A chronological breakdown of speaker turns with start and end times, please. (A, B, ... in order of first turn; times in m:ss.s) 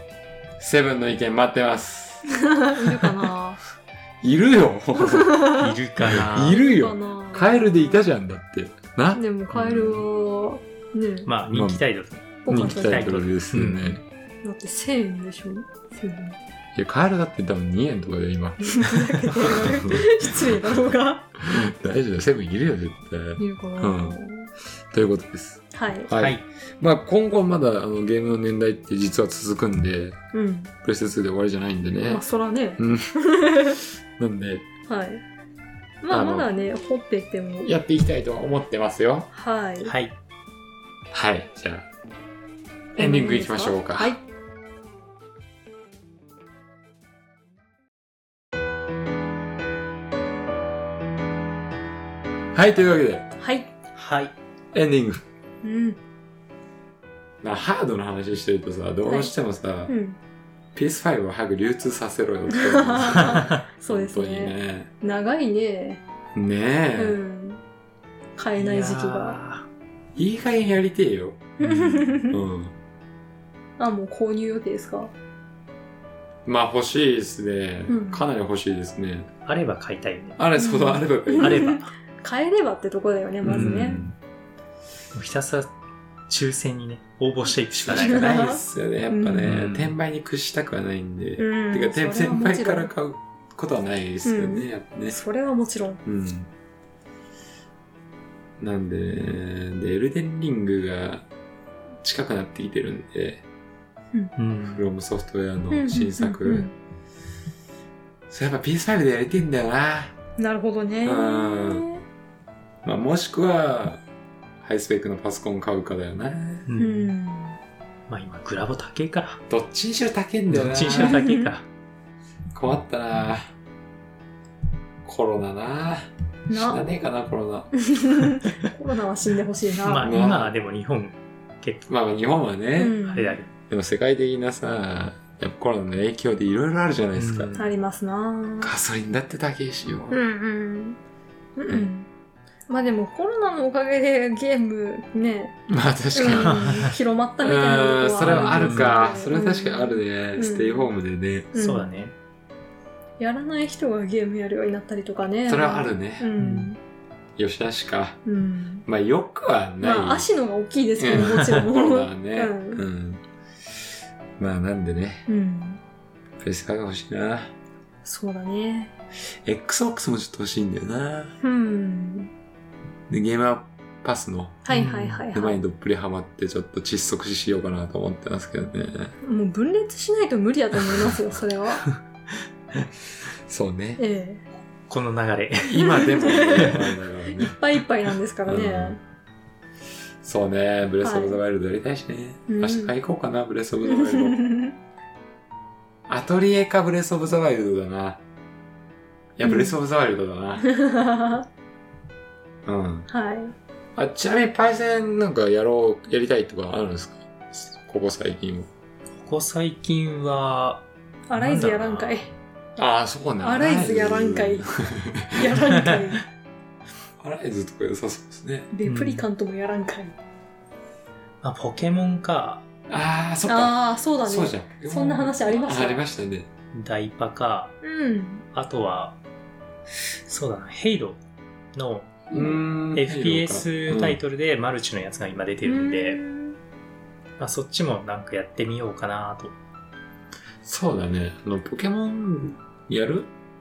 0:00.6-0:03.3 A
0:02.3-0:03.6 B
0:04.2-0:10.0 A
0:05.0-0:05.7 B
0:05.6-0:06.6 C
0:06.5-0:08.0 B
0:09.1-0:11.3 B
0:11.3-0:14.0 C
0:11.5-0:11.8 A
0:12.4-0:13.2 B
0:12.5-0:14.0 A
0:14.4-0:16.4 B
0:16.8-0:18.9 A
0:18.6-0:21.3 B
0:19.4-0:20.4 A
0:21.4-0:24.2 A
0:23.4-0:24.5 B
0:24.9-0:30.2 A
0:25.7-0:26.1 B
0:26.2-0:26.4 C
0:30.3-0:30.7 B
0:30.8-0:32.2 A
0:32.0-0:33.8 B
0:32.8-0:33.1 A
0:34.2-0:34.7 A
0:34.9-0:35.2 B
0:36.0-0:37.7 B
0:36.1-0:36.5 A
0:37.6-0:39.3 A
0:39.3-0:39.9 B
0:39.8-0:40.1 C
0:41.1-0:41.9 A
0:42.9-0:44.2 A
0:43.0-0:44.2 B
0:52.5-0:53.3 A
0:53.4-0:53.7 B
0:54.0-0:54.3 C
0:54.7-0:55.2 A
0:55.6-0:56.0 B
0:57.4-0:59.9 A
0:59.0-0:59.3 B
0:59.9-1:00.2 B
1:00.8-1:04.9 A
1:02.5-1:06.0 B
1:06.3-1:07.2 A
1:07.0-1:07.6 B
1:08.4-1:09.4 B
1:08.6-1:09.7 C
1:10.2-1:11.5 A
1:11.6-1:12.4 B
1:11.6-1:11.9 C
1:12.3-1:12.7 A
1:13.8-1:15.1 B
1:16.5-1:19.3 A
1:17.9-1:18.2 B
1:19.5-1:20.4 C
1:20.4-1:21.7 A
1:20.6-1:24.0 B
1:21.4-1:21.9 C
1:23.4-1:24.2 A
1:23.5-1:24.1 C
1:25.1-1:25.7 C
1:26.3-1:28.6 C
1:27.8-1:35.2 A
1:27.9-1:29.5 B
1:29.4-1:29.9 C
1:31.4-1:32.9 B
1:34.2-1:36.0 B
1:36.0-1:36.5 A
1:38.6-1:41.3 A
1:42.0-1:43.4 A
1:44.4-1:44.9 C
1:44.7-1:46.7 A
1:45.7-1:46.7 B
1:48.3-1:50.1 A
1:50.4-1:52.0 B
1:51.0-1:51.9 A
1:52.8-1:54.0 A
1:54.6-1:56.6 A
1:56.7-1:57.1 C
1:56.8-1:57.6 B
1:58.1-1:59.4 C
1:59.5-2:01.2 A
2:00.5-2:01.7 C
2:01.0-2:01.5 B
2:02.5-2:03.5 A
2:05.0-2:07.9 A
2:06.5-2:06.9 B
2:07.7-2:10.1 B
2:09.8-2:11.9 C
2:10.0-2:10.5 A
2:11.9-2:13.0 A
2:12.8-2:13.4 B
2:13.1-2:13.5 C
2:13.7-2:17.5 A
2:17.2-2:17.8 C
2:17.6-2:18.7 B
2:18.6-2:20.2 A
2:20.1-2:21.0 B
2:21.6-2:22.1 B
2:22.7-2:25.6 B
2:25.7-2:31.5 A
2:26.1-2:30.9 B
2:26.3-2:26.9 C
2:28.2-2:29.0 C
2:31.5-2:32.0 B
2:31.6-2:32.1 C
2:33.2-2:36.8 B
2:35.5-2:36.3 A
2:36.4-2:36.7 C
2:37.4-2:38.2 A
2:38.2-2:38.9 B
2:38.9-2:40.3 A
2:39.8-2:42.8 B
2:41.0-2:43.2 A
2:41.3-2:41.6 C
2:44.4-2:45.3 A
2:45.3-2:45.8 B
2:46.4-2:47.5 A
2:48.0-2:48.9 B
2:49.4-2:51.4 A
2:51.4-2:52.3 B
2:53.1-2:54.7 A
2:54.7-2:55.6 B
2:54.7-2:55.2 C
2:55.3-2:59.1 A
2:59.2-3:01.9 B
3:03.5-3:04.0 A
3:04.0-3:04.4 B
3:04.9-3:06.8 C
3:05.6-3:07.6 A
3:05.8-3:09.0 B
3:08.5-3:09.0 A
3:10.2-3:14.4 A
3:11.0-3:11.4 B
3:12.5-3:12.9 B
3:13.8-3:14.8 B
3:16.1-3:18.2 A
3:19.4-3:20.7 A
3:19.4-3:19.8 B
3:20.6-3:21.5 B
3:22.6-3:23.1 A
3:23.1-3:23.6 B
3:24.0-3:28.7 A
3:29.2-3:30.8 C
3:31.3-3:32.3 B
3:31.4-3:32.3 C
3:32.8-3:35.6 A
3:33.4-3:34.7 B
3:35.3-3:36.2 B
3:35.8-3:36.1 C
3:37.2-3:38.7 A
3:38.7-3:40.2 B
3:38.8-3:39.3 C
3:41.4-3:42.7 C
3:42.9-3:46.5 A
3:43.5-3:46.0 B
3:46.7-3:47.8 C
3:47.8-3:48.5 B
3:48.5-3:49.2 C
3:50.3-3:51.2 C
3:51.7-3:52.3 C
3:52.3-3:54.2 A
3:52.9-3:56.2 C
3:55.6-3:56.6 B
3:57.4-3:59.6 C
4:00.6-4:03.3 A